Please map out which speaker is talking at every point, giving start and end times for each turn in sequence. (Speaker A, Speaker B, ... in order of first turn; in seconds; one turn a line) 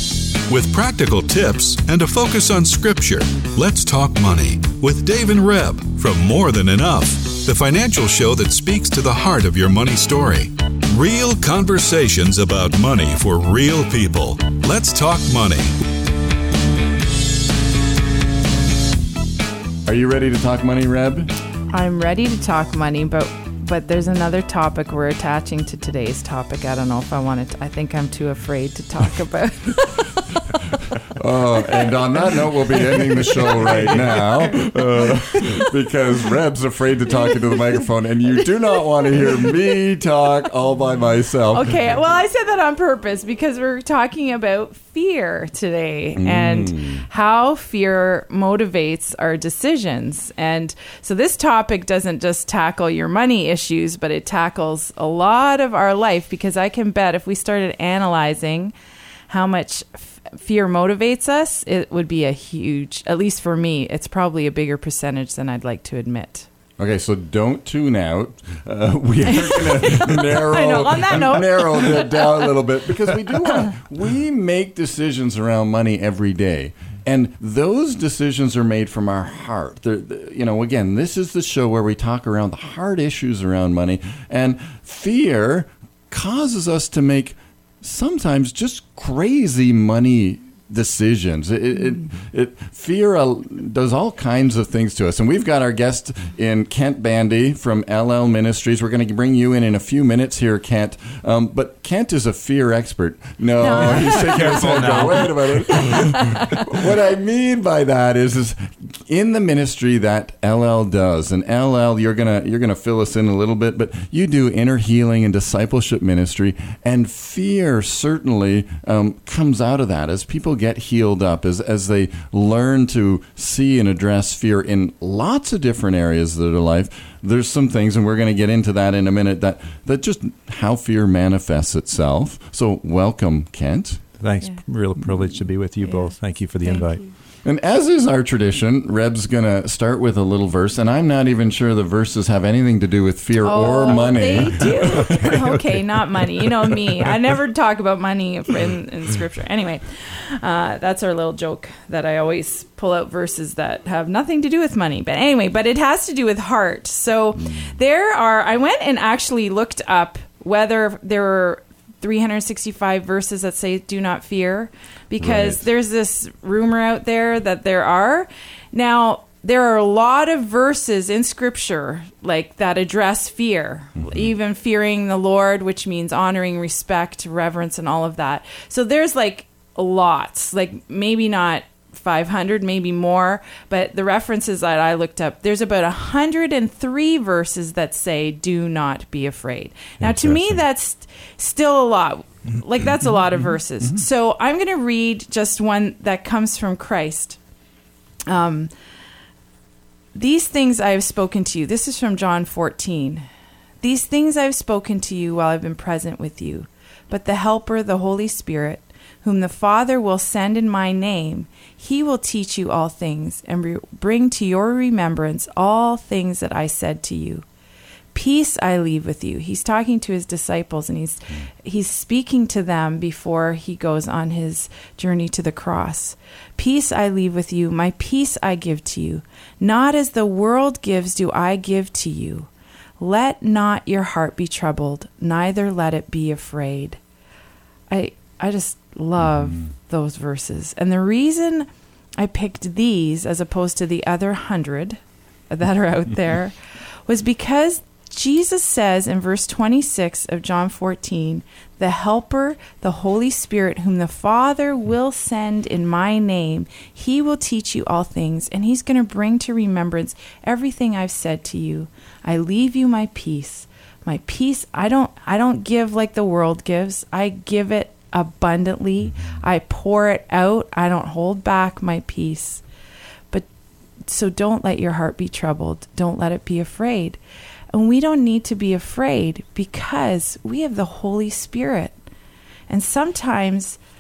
Speaker A: 0.5-15.8
Speaker B: 19.9-21.3
Speaker C: 21.7-30.5
Speaker B: 31.1-41.9
Speaker C: 31.7-35.7
Speaker C: 37.2-37.6
Speaker C: 38.7-39.6
Speaker C: 41.5-58.7
Speaker B: 46.2-47.0
Speaker C: 59.3-66.5
Speaker B: 66.8-134.0
Speaker C: 69.3-72.6
Speaker C: 103.6-105.2
Speaker D: 104.0-105.2
Speaker C: 105.9-106.4
Speaker D: 134.2-137.0
Speaker C: 135.8-137.1
Speaker B: 137.4-145.3
Speaker C: 143.4-197.4
Speaker D: 145.1-145.5
Speaker B: 157.4-157.7
Speaker B: 165.2-165.7
Speaker B: 174.0-174.3
Speaker D: 190.0-190.6
Speaker C: 198.3-198.7
Speaker C: 200.2-203.3
Speaker C: 203.8-217.4
Speaker C: 218.1-232.5
Speaker C: 233.0-237.0
Speaker C: 237.9-245.0
Speaker C: 245.5-246.6
Speaker C: 247.1-272.6
Speaker C: 274.1-277.2
Speaker C: 277.7-282.0
Speaker C: 282.7-283.8